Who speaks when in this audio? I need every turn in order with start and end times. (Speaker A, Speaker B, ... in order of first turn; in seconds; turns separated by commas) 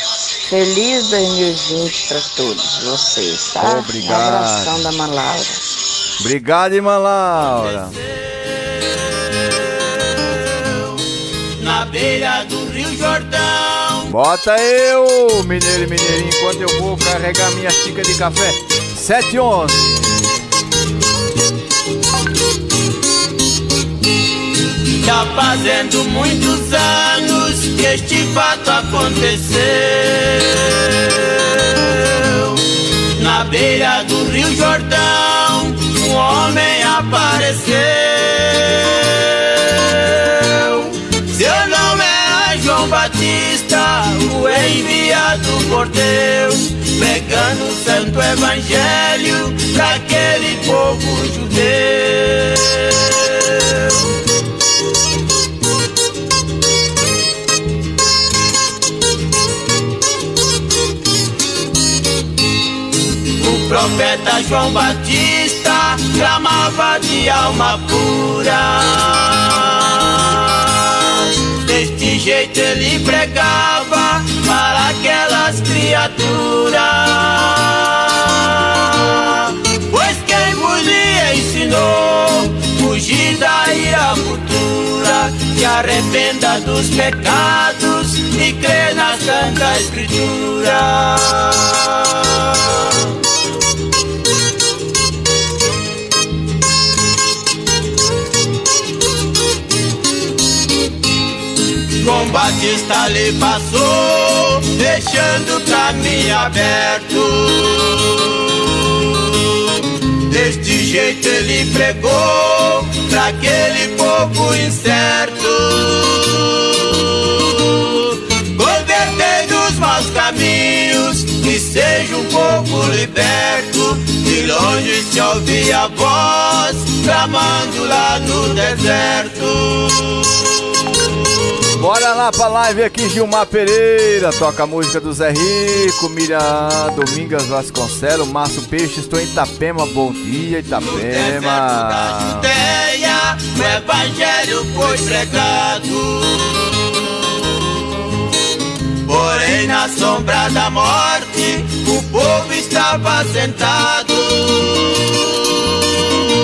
Speaker A: 0.3-5.6, Speaker B: 3.6-4.8, Speaker B: 6.2-7.9, Speaker C: 11.6-14.0, Speaker B: 14.1-19.9, Speaker C: 25.0-31.3, Speaker C: 31.8-32.5, Speaker C: 33.1-53.5, Speaker C: 63.4-70.7, Speaker C: 71.6-92.2, Speaker C: 102.0-108.1, Speaker C: 110.3-117.9, Speaker C: 118.5-130.1, Speaker B: 131.8-142.5, Speaker C: 140.9-146.4, Speaker C: 149.1-154.9